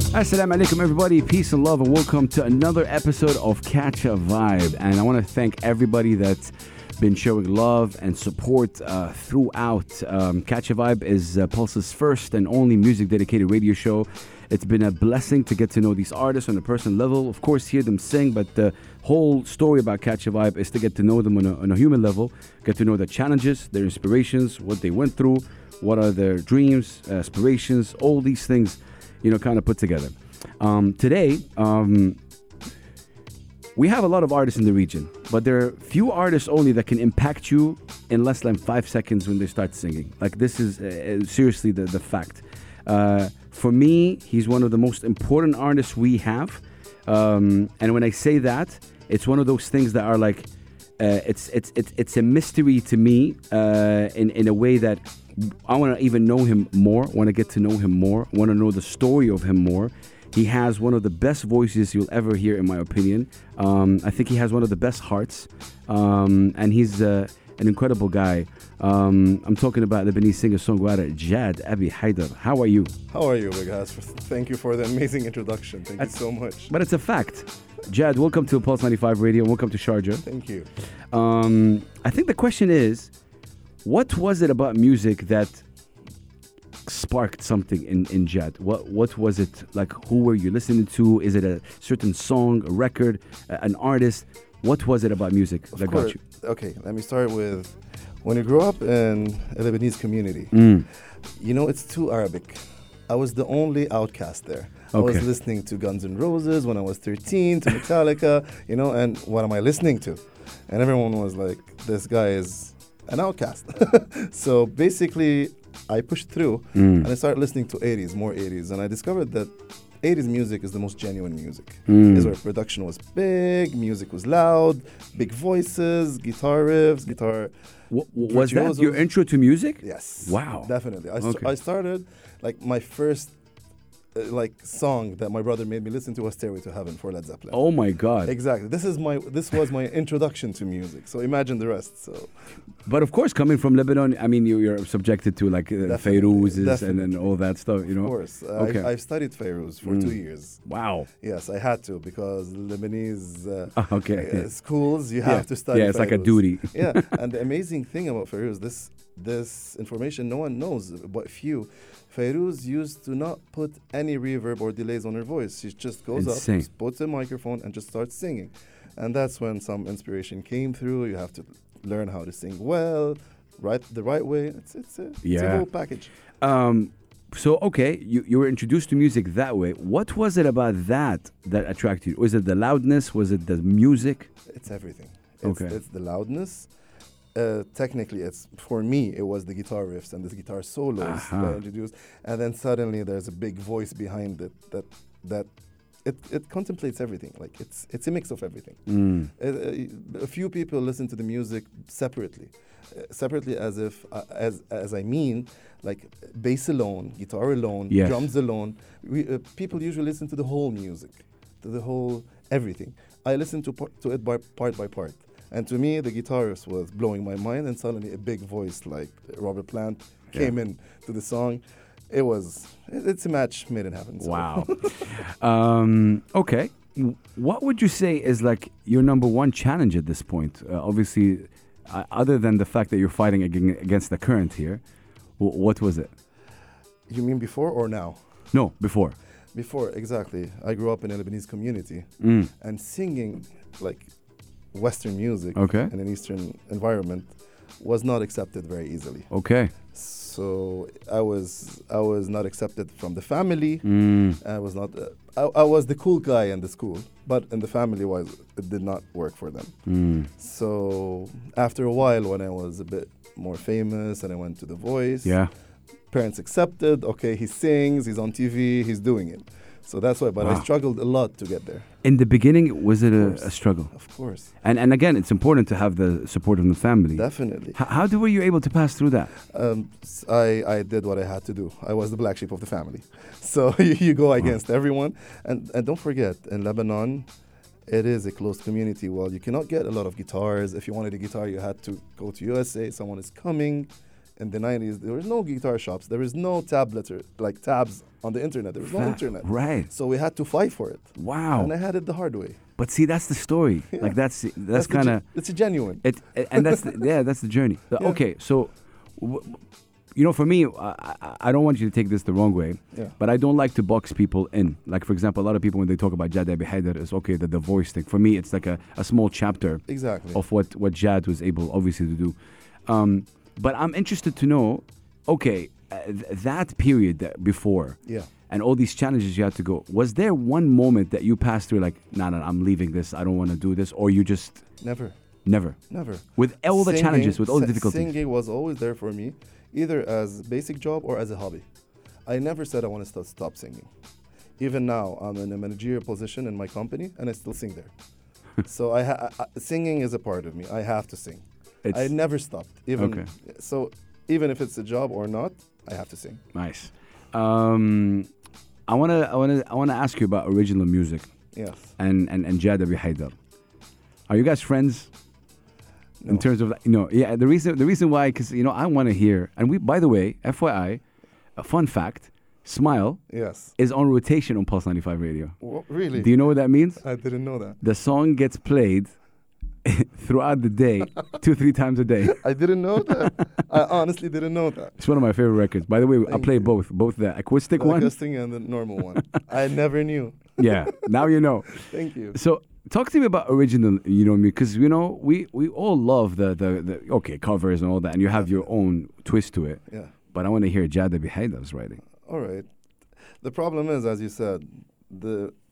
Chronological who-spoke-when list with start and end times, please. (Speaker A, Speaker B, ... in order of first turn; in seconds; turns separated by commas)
Speaker A: 0.1-32.2, Speaker A: 33.8-50.5, Speaker A: 51.0-72.9, Speaker B: 73.1-76.7, Speaker A: 76.7-80.2, Speaker B: 80.2-80.7, Speaker A: 81.1-83.1, Speaker A: 83.8-85.6, Speaker A: 86.9-96.2, Speaker B: 95.7-100.7, Speaker A: 100.5-100.8, Speaker B: 101.4-119.5, Speaker A: 104.9-105.2, Speaker A: 116.8-117.1, Speaker B: 120.0-127.5, Speaker A: 121.9-122.3, Speaker A: 127.9-131.5, Speaker B: 128.2-129.1, Speaker B: 129.8-133.3, Speaker B: 134.2-137.6, Speaker A: 137.5-138.3, Speaker B: 138.2-142.3, Speaker A: 142.8-148.9, Speaker B: 145.8-147.3, Speaker B: 147.8-150.6, Speaker A: 149.8-151.1, Speaker B: 151.2-176.1, Speaker A: 153.8-154.5, Speaker A: 155.2-157.1, Speaker A: 166.2-166.7, Speaker A: 175.2-175.7, Speaker A: 176.4-184.3, Speaker B: 184.5-186.7, Speaker A: 185.4-185.8, Speaker B: 187.3-195.5, Speaker A: 191.0-191.6, Speaker B: 196.1-198.8, Speaker A: 198.9-199.3, Speaker B: 199.4-225.1, Speaker A: 207.9-208.3, Speaker A: 224.2-234.8, Speaker A: 235.4-236.1, Speaker B: 237.1-238.2, Speaker A: 238.5-239.2, Speaker B: 239.6-244.1, Speaker A: 242.2-242.5, Speaker B: 244.7-249.3, Speaker A: 245.6-245.9, Speaker A: 249.3-249.7, Speaker B: 249.9-253.9, Speaker A: 253.8-254.4, Speaker B: 254.4-259.8, Speaker A: 259.9-260.3, Speaker B: 260.4-265.4, Speaker A: 265.2-265.5, Speaker B: 266.1-271.9, Speaker A: 272.0-273.9, Speaker B: 273.2-274.5, Speaker A: 274.6-279.3, Speaker B: 277.1-277.8, Speaker B: 279.5-287.3, Speaker B: 287.9-302.6, Speaker A: 298.8-299.9, Speaker A: 301.2-301.7, Speaker A: 302.8-305.2, Speaker B: 304.7-307.0, Speaker A: 306.0-309.6, Speaker A: 310.2-319.8, Speaker B: 319.9-320.4, Speaker A: 320.3-322.4, Speaker A: 322.9-328.0, Speaker A: 328.5-334.6, Speaker B: 334.8-335.1, Speaker A: 335.5-335.8, Speaker B: 335.9-341.6, Speaker A: 336.4-338.1, Speaker B: 342.3-343.9, Speaker B: 344.6-347.9, Speaker B: 348.6-356.4, Speaker A: 351.9-352.1, Speaker A: 353.0-353.3, Speaker A: 356.5-358.3, Speaker A: 358.9-361.3, Speaker B: 361.5-361.9, Speaker A: 362.0-363.4, Speaker A: 364.3-365.1, Speaker B: 366.2-366.5, Speaker A: 366.3-371.0, Speaker A: 371.6-373.2, Speaker B: 373.3-373.7, Speaker A: 373.8-375.6, Speaker B: 375.6-376.4, Speaker A: 376.2-377.0, Speaker B: 377.0-377.8, Speaker A: 377.8-379.1, Speaker A: 379.9-382.4, Speaker B: 382.3-385.0, Speaker A: 385.0-388.1, Speaker B: 386.3-386.7, Speaker B: 387.8-391.1, Speaker A: 390.6-399.8, Speaker B: 391.7-392.4, Speaker A: 400.3-402.0, Speaker B: 402.3-402.7, Speaker B: 403.4-405.5